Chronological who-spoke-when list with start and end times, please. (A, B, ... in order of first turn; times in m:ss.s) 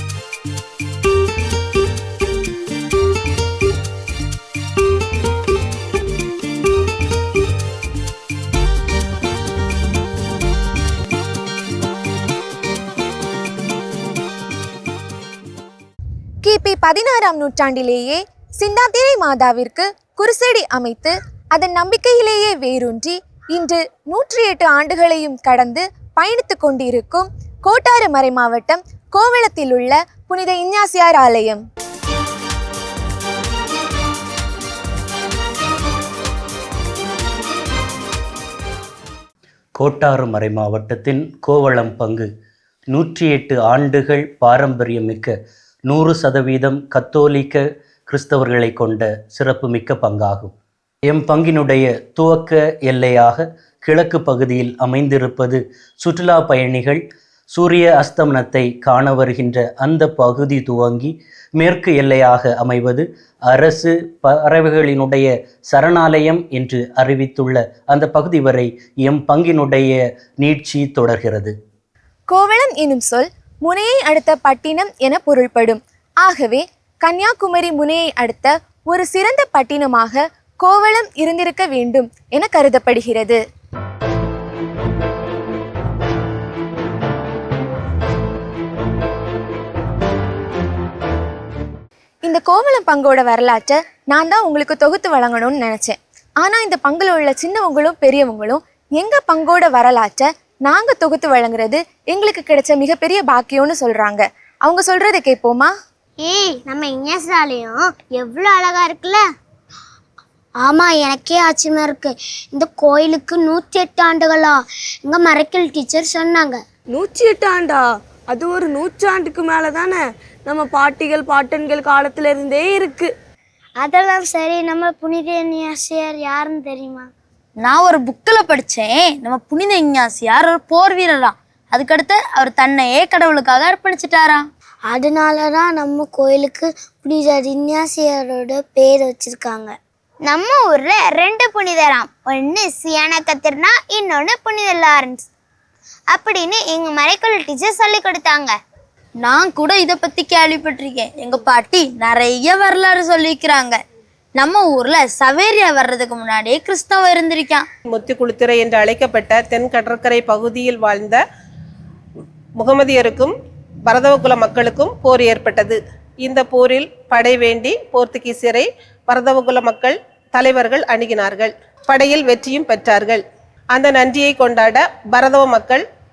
0:16.4-0:31.6 A
0:39.8-0:42.3 B
0:42.9-0:45.4 B
0:45.9-0:50.5 B
0:51.1-1:11.6 B
1:12.3-1:23.4 A
1:32.3-1:45.7 A
1:46.2-1:49.2 C
1:50.6-1:56.6 C
1:56.9-2:03.1 D
2:03.8-2:07.1 C
2:07.6-2:14.4 E
2:14.9-2:25.3 C
2:26.1-2:28.5 C
2:29.2-2:33.8 E
2:34.4-2:37.6 E
2:37.9-2:41.2 F
2:42.6-2:43.3 F
2:43.9-2:53.2 F
2:53.7-2:55.8 F